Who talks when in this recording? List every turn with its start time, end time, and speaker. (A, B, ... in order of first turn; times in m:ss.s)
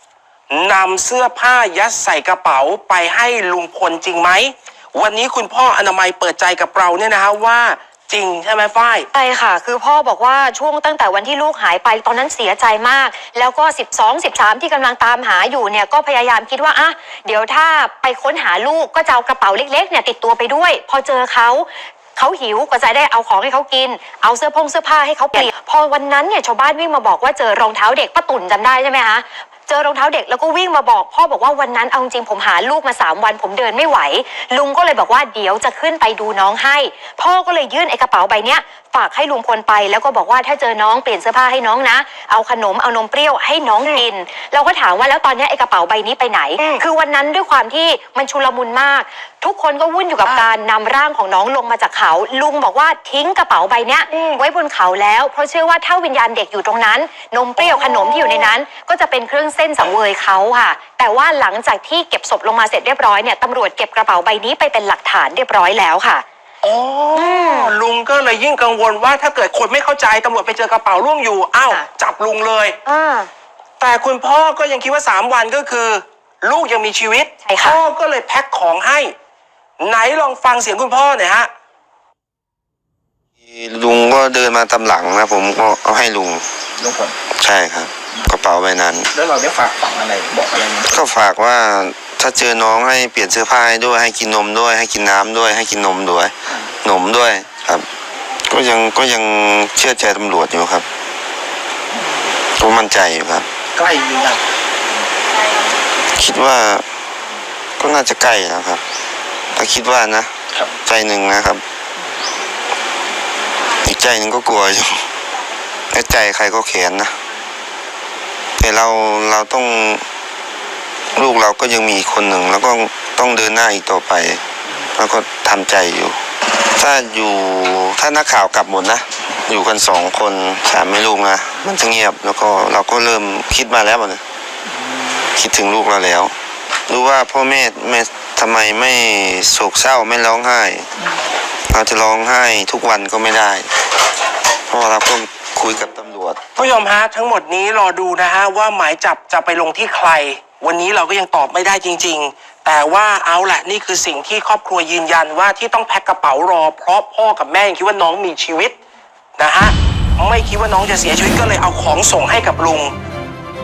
0:00.5-0:09.1 A
0:09.1-1:06.2 B
0:54.1-0:54.4 A
0:57.6-0:58.5 A
1:06.6-1:12.8 A
1:07.1-1:07.7 B
1:12.8-1:13.3 B
1:13.8-1:19.1 A
1:17.4-1:17.8 B
1:19.8-1:21.5 A
1:23.4-1:26.4 C
1:26.8-1:27.2 D
1:27.3-1:29.1 C
1:29.2-1:30.9 D
1:30.8-1:37.9 C
1:38.5-1:40.8 C
1:42.5-1:43.5 C
1:43.8-1:44.4 D
1:46.1-1:46.8 C
1:47.8-1:48.8 C
1:49.5-1:51.6 C
1:53.8-1:55.1 C
1:55.9-1:57.1 C
1:58.6-2:00.0 C
2:01.1-2:06.2 C
2:06.7-2:14.2 C
2:15.3-2:16.3 C
2:16.9-2:20.9 C
2:21.7-2:23.7 C
2:24.7-2:26.4 C
2:26.6-2:38.8 A
2:39.4-2:42.9 A